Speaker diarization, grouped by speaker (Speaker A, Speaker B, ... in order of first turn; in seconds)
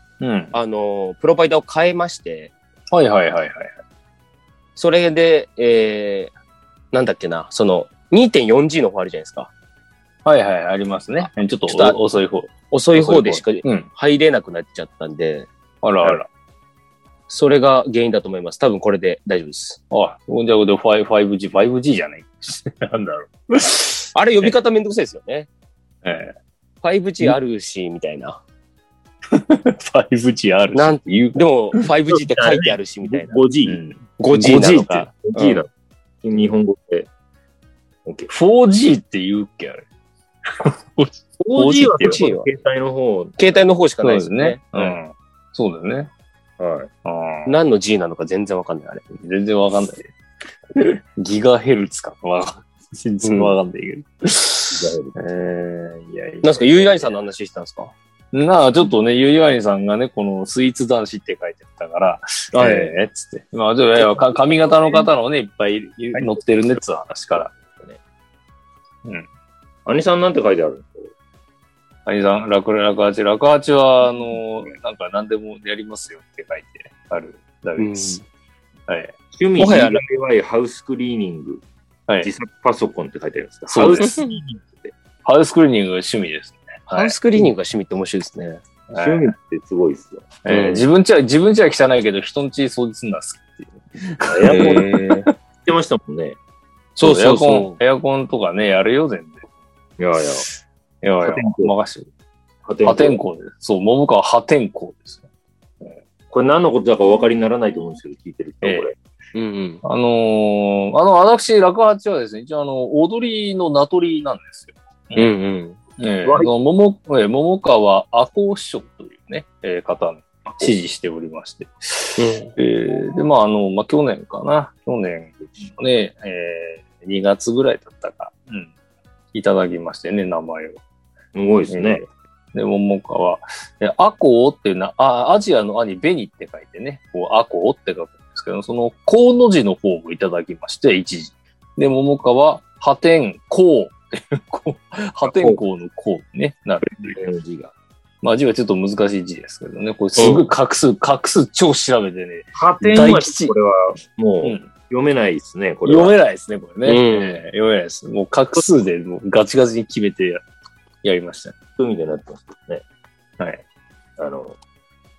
Speaker A: 0.2-0.6, 2.9-3.7, 10.2-13.9, 15.8-16.3, 19.9-24.5, 26.0-26.3, 29.3-31.9, 33.6-35.1, 38.3-39.9, 40.6-42.3, 44.0-46.1, 47.0-47.5, 49.1-50.1, 50.8-57.2, 58.3-67.5, 72.1-78.2, 78.9-79.1, 83.7-84.2, 85.2-87.2, 88.9-89.3, 90.5-95.3, 97.0-99.4, 101.0-102.1, 102.8-105.3, 108.6-108.9, 109.8-115.3, 116.0-128.7, 129.3-130.8, 131.7-147.3, 148.2-153.5, 154.4-154.7, 155.8-160.4, 161.0-161.6
Speaker B: 0.5-2.5, 4.8-6.3, 6.9-9.5, 11.2-12.0, 12.7-15.5, 17.3-19.8, 24.1-25.5, 26.8-28.4, 30.7-33.4, 34.2-35.6, 42.0-42.5, 43.4-45.0, 47.5-49.0, 53.2-53.5, 56.4-57.9, 62.5-62.9, 77.8-78.2, 79.6-80.0, 84.0-84.3, 86.9-88.6, 94.5-95.3, 97.0-97.8, 109.3-109.8, 115.2-115.8, 122.2-122.5, 150.2-150.5, 156.9-157.4
Speaker C: 32.1-33.8, 35.1-35.7, 36.2-37.1, 38.0-38.3, 41.4-43.6, 46.6-46.9, 54.7-55.2, 69.9-71.1, 79.3-81.6, 82.2-84.9, 89.0-90.8, 94.3-94.9, 95.7-96.4, 100.0-100.5, 101.2-101.7, 102.7-103.2, 106.3-109.0, 116.2-116.5, 131.3-132.1, 145.3-145.6, 146.9-147.7, 152.5-156.1, 161.8-162.8, 164.2-164.6